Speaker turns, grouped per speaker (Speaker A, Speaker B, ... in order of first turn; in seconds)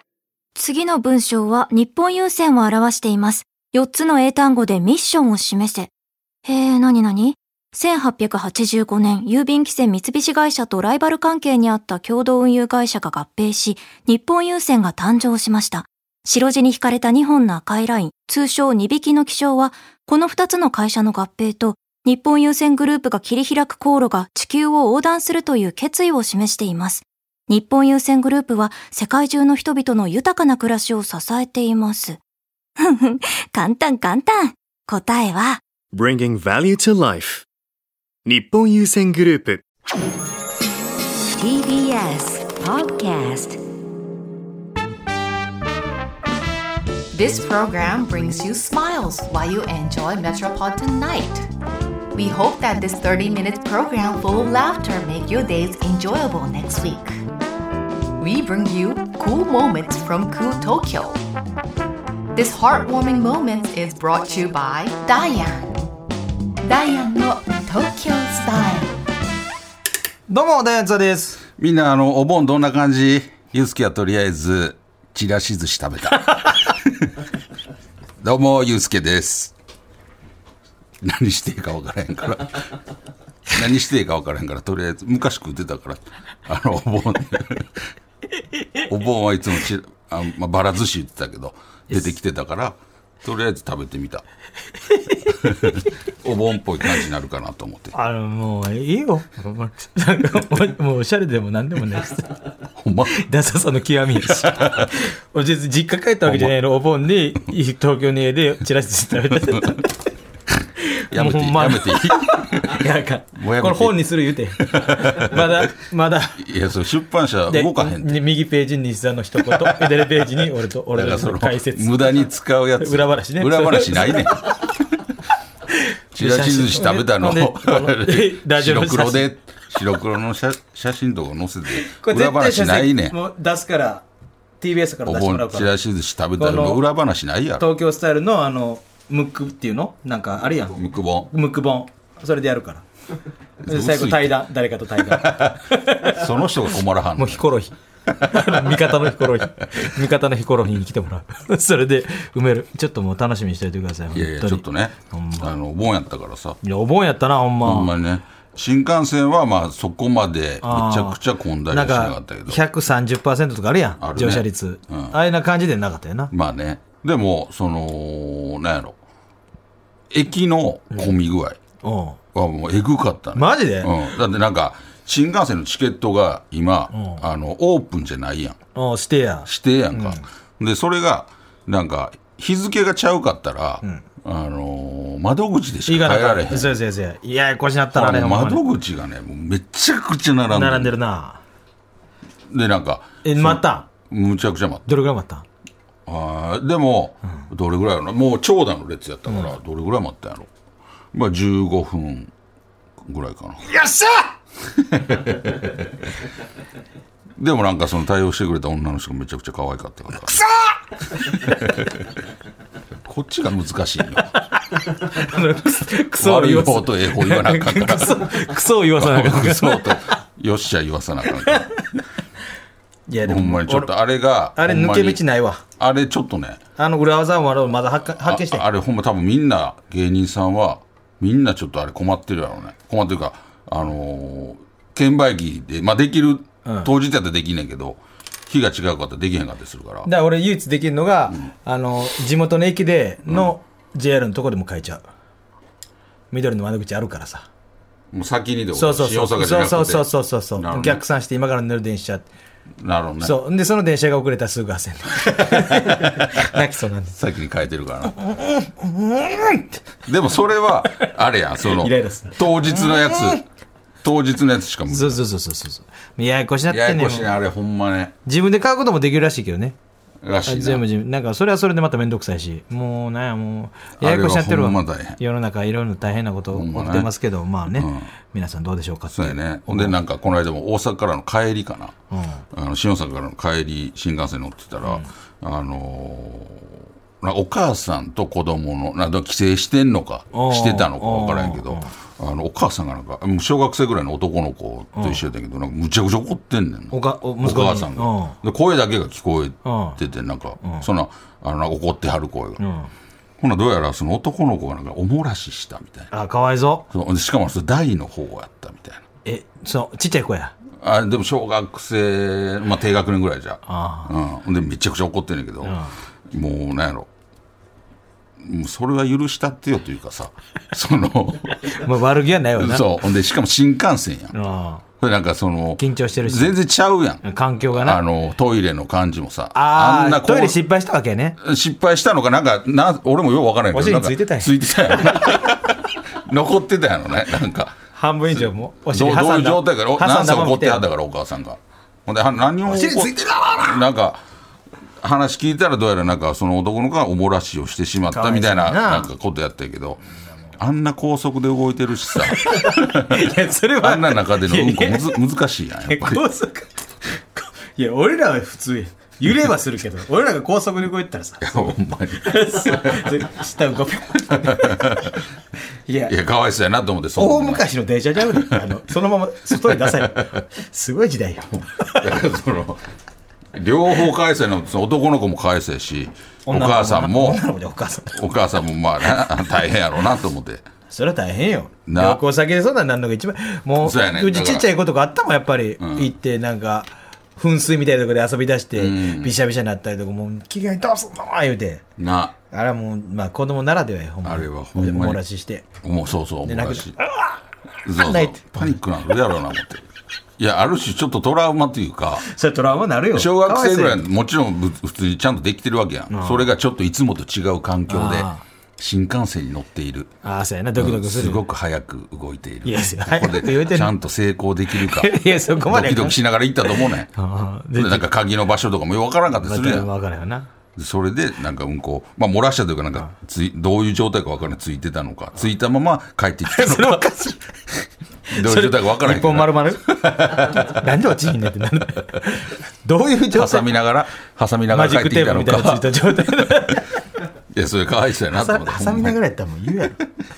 Speaker A: 0.6-5.9, 6.4-32.2, 32.8-35.6
Speaker B: 35.9-37.5, 38.2-39.6
Speaker C: 41.3-43.6
Speaker D: 47.1-51.5, 52.1-57.2, 58.2-61.2, 62.3-65.7, 66.6-68.9
Speaker E: 70.3-71.4, 94.9-95.8, 97.9-102.4, 103.1-109.9, 110.9-116.4, 117.5-122.2, 122.8-124.5, 125.7-129.3, 131.7-134.0, 134.6-135.7, 136.4-136.8, 137.6-142.8, 143.7-146.2, 147.2-155.5, 156.6-157.9, 160.6-161.2, 161.7-166.3, 171.8-172.2, 173.3-173.9, 176.9-177.2, 178.7-180.2, 185.8-188.6, 190.5-191.4, 193.2-193.9, 194.9-195.4, 203.6-204.3, 210.3-210.8, 214.8-220.2, 221.4-222.0, 223.1-223.9, 224.6-225.6, 226.8-228.6, 236.6-236.9, 240.1-245.0, 246.3-247.5, 248.7-252.3, 253.2-257.2, 258.1-259.8, 261.6-263.4, 264.9-267.3, 268.2-269.8, 270.5-279.9, 282.1-282.4, 290.3-291.9, 294.9-295.2, 296.9-298.4, 299.6-300.0, 302.6-302.9, 306.1-306.9, 309.2-310.5, 313.7-314.1, 315.6-315.9, 321.6-322.8, 324.3-324.8, 325.8-326.6, 327.2-328.0, 329.5-331.4, 333.7-335.4, 337.9-340.9, 342.6-343.8, 348.1-349.1, 352.3-355.2, 355.9-365.2, 365.9-366.1, 367.1-372.1, 376.4-378.2, 380.9-391.8, 392.5-395.6, 396.4-397.4, 397.9-398.8, 402.2-404.0, 406.1-406.5, 407.9-408.4, 410.2-411.4, 412.6-413.9, 414.7-418.1, 419.3-420.5, 426.4-427.4, 428.3-433.8, 434.7-436.9, 438.3-440.0
Speaker F: 71.6-77.1, 78.2-79.5, 81.0-82.7, 83.5-87.8, 88.9-94.2, 95.4-97.9, 102.8-103.2, 104.2-104.9, 106.2-106.5, 109.5-109.7, 111.1-115.7, 116.4-118.2, 119.4-120.2, 120.9-124.8, 126.1-133.2, 135.1-137.6, 140.7-141.3, 143.6-144.4, 145.0-147.5, 148.1-149.9, 154.1-156.6, 157.6-162.6, 164.0-165.1, 166.3-169.0, 170.1-171.6, 172.3-178.6, 179.4-186.7, 187.9-190.9, 192.5-194.9, 196.1-200.5, 201.1-202.3, 203.0-203.7, 204.8-205.8, 207.4-210.4, 211.1-212.1, 213.0-214.4, 216.2-221.7, 223.2-225.2, 225.8-226.6, 228.2-240.1, 243.3-243.5, 248.1-251.0, 252.8-253.3, 255.6-256.4, 257.2-258.2, 260.1-263.4, 264.0-265.2, 266.7-268.1, 270.2-270.8, 274.0-275.2, 276.5-277.1, 277.8-278.1, 279.1-281.9, 282.5-302.6, 303.4-306.1, 306.9-309.0, 310.8-315.8, 316.3-317.1, 318.4-321.8, 322.6-324.3, 325.0-330.6, 331.4-337.8, 338.3-344.2, 345.0-350.0, 350.6-356.2, 361.4-363.2, 364.3-365.2, 366.1-367.6, 368.3-368.7, 369.5-370.2, 371.9-372.8, 373.5-377.4, 378.1-380.7, 381.9-382.2, 383.8-384.7, 385.8-386.1, 388.7-389.3, 392.0-392.3, 394.2-395.2, 395.8-397.0, 397.8-399.8, 400.4-402.2, 403.1-410.1, 410.7-417.1, 417.8-419.9, 420.8-427.3, 428.3-430.8, 433.3-436.6, 437.5-439.2